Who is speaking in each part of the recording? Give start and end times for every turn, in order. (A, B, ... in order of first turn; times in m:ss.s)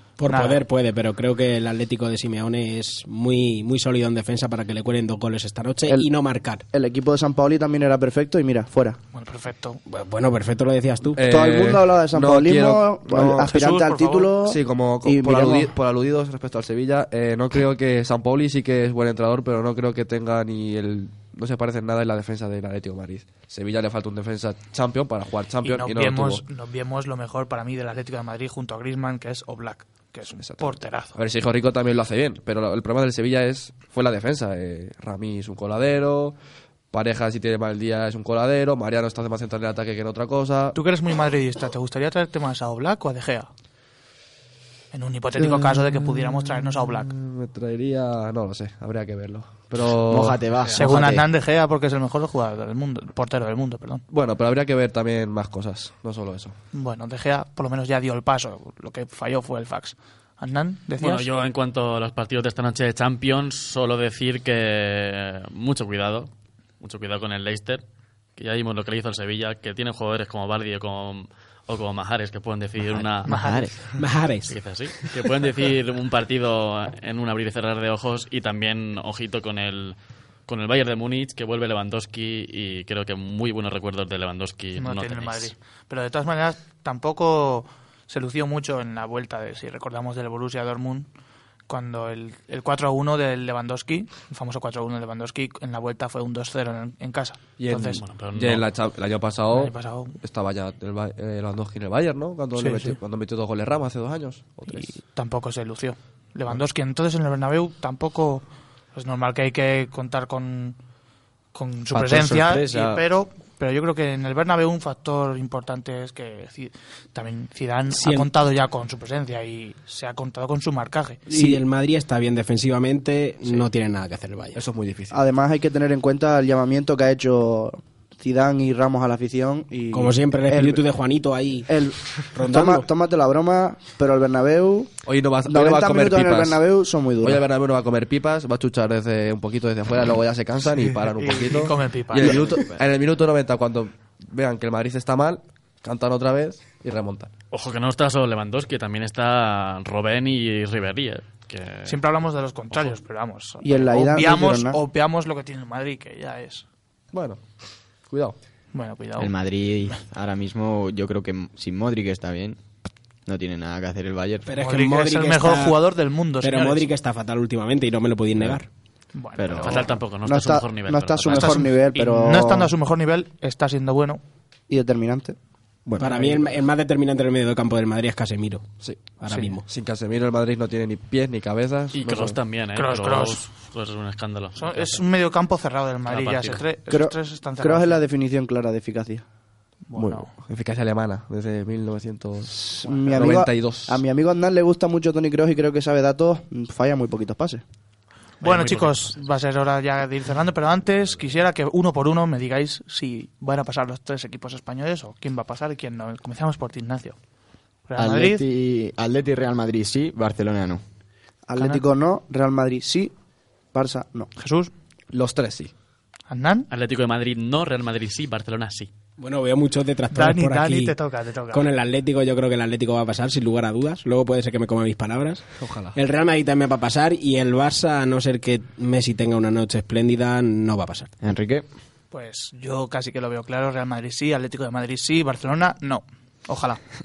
0:00.2-0:06.6 A
0:00.3-0:00.6 B
0:05.9-0:06.1 C
0:06.7-0:09.0 C
0:09.1-0:09.8 B
0:09.9-0:11.2 A
0:11.2-0:13.5 D
0:11.2-0:15.7 C
0:13.4-0:14.3 B
0:14.4-0:26.4 D
0:25.6-0:31.2 B
0:30.4-0:36.4 D
0:36.9-0:40.8 D
0:40.7-0:43.5 B
0:44.9-0:47.1 B
0:45.4-0:50.4 D
0:50.1-0:51.3 E
0:50.8-0:54.0 B
0:54.1-0:56.6 D
0:56.7-1:01.3 B
1:01.0-1:07.8 F
1:08.4-1:13.3 F
1:13.3-1:13.8 E
1:13.3-1:14.0 B
1:13.9-1:15.2 A
1:14.5-1:25.5 F
1:24.8-1:31.1 B
1:31.7-1:38.0 B
1:37.6-1:44.9 D
1:38.0-1:38.6 F
1:39.5-1:40.2 B
1:42.6-1:43.0 B
1:44.7-1:50.8 B
1:51.5-2:01.2 B
1:51.9-1:53.0 E
1:57.9-1:58.3 A
2:01.3-2:04.6 A
2:01.3-2:01.6 C
2:04.6-2:05.2 D
2:05.1-2:10.8 C
2:09.9-2:12.9 A
2:11.7-2:17.4 C
2:15.0-2:16.6 D
2:17.2-2:27.3 D
2:21.1-2:22.4 B
2:22.2-2:22.8 E
2:27.5-2:32.0 F
2:31.9-2:36.7 B
2:33.6-2:34.8 C
2:37.1-2:37.4 D
2:38.1-2:38.4 D
2:38.7-2:39.3 B
2:39.2-2:42.6 E
2:43.3-2:44.5 E
2:44.5-2:45.8 A
2:44.6-2:46.9 B
2:46.4-2:48.7 A
2:49.1-2:49.9 B
2:49.4-2:50.0 E
2:49.6-2:51.7 F
2:50.2-2:52.7 C
2:51.3-2:54.2 B
2:54.7-2:55.4 C
2:55.8-2:59.6 A
2:56.0-2:56.4 B
2:58.8-3:02.4 D
2:59.3-2:59.6 B
3:01.9-3:05.0 F
3:02.8-3:03.5 B
3:04.6-3:08.0 B
3:06.1-3:06.6 F
3:06.9-3:09.2 C
3:09.9-3:10.3 B
3:09.9-3:14.0 D
3:12.5-3:17.6 C
3:12.8-3:13.4 B
3:18.4-3:19.2 F
3:18.4-3:27.2 B
3:27.9-3:28.4 B
3:28.0-3:30.8 E
3:31.5-3:33.1 C
3:31.6-3:31.8 B
3:33.7-3:34.3 C
3:34.4-3:34.7 B
3:35.1-3:35.7 D
3:36.3-3:36.7 B
3:36.7-3:38.9 F
3:39.2-3:40.9 A
3:40.1-3:41.7 B
3:41.5-3:51.2 A
3:45.6-3:46.0 D
3:51.2-3:51.6 E
3:52.1-3:56.8 B